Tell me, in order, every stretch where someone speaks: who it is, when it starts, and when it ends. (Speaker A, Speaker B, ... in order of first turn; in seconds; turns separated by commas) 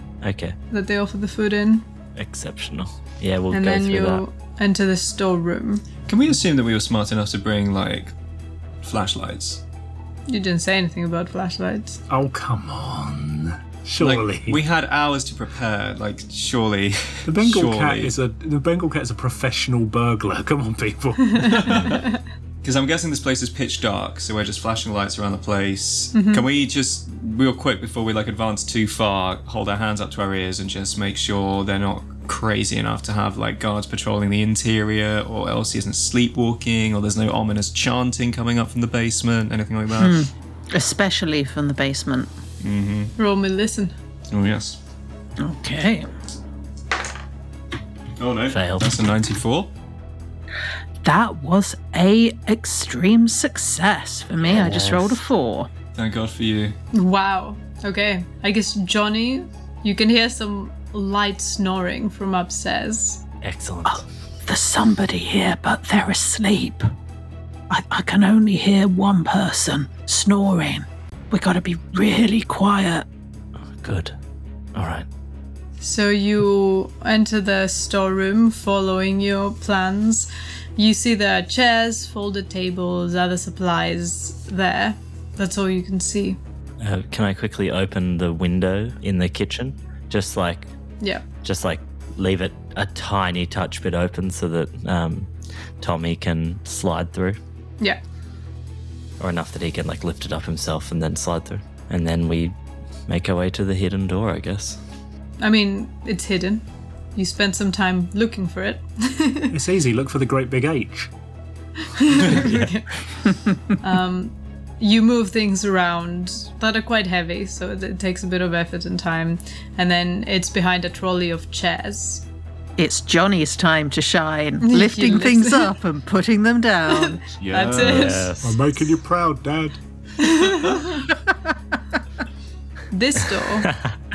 Speaker A: 0.2-0.6, Speaker B: 0.7-1.8, Speaker A: 2.1-4.2, Speaker B: 3.5-5.8, Speaker C: 6.1-8.1, Speaker C: 8.8-9.6, Speaker B: 10.3-12.0, Speaker D: 12.1-14.6, Speaker C: 14.0-18.1, Speaker D: 17.2-21.8, Speaker B: 21.2-22.2, Speaker C: 21.4-22.1, Speaker C: 22.6-40.2, Speaker B: 26.1-26.5, Speaker E: 40.0-42.3, Speaker C: 42.6-43.1, Speaker B: 43.2-43.9, Speaker C: 44.3-44.8, Speaker E: 45.4-46.1, Speaker C: 48.2-49.7, Speaker A: 48.5-48.8, Speaker E: 51.0-55.7, Speaker A: 54.4-55.2, Speaker C: 55.9-56.8, Speaker B: 56.9-63.2, Speaker A: 63.4-64.0, Speaker E: 63.9-66.8, Speaker E: 67.7-73.0, Speaker A: 73.8-74.1, Speaker A: 74.7-75.0, Speaker B: 75.8-86.4, Speaker A: 86.8-90.7, Speaker A: 91.4-97.4, Speaker A: 99.2-102.5, Speaker A: 103.1-104.8, Speaker B: 105.4-106.6, Speaker B: 107.2-109.5, Speaker D: 109.5-111.1, Speaker B: 111.8-112.9, Speaker B: 113.8-122.2, Speaker E: 122.8-127.2, Speaker B: 124.6-125.8, Speaker B: 126.9-128.3, Speaker C: 127.4-128.2, Speaker A: 127.7-128.6, Speaker D: 128.4-129.8, Speaker B: 130.2-131.0, Speaker B: 132.9-133.7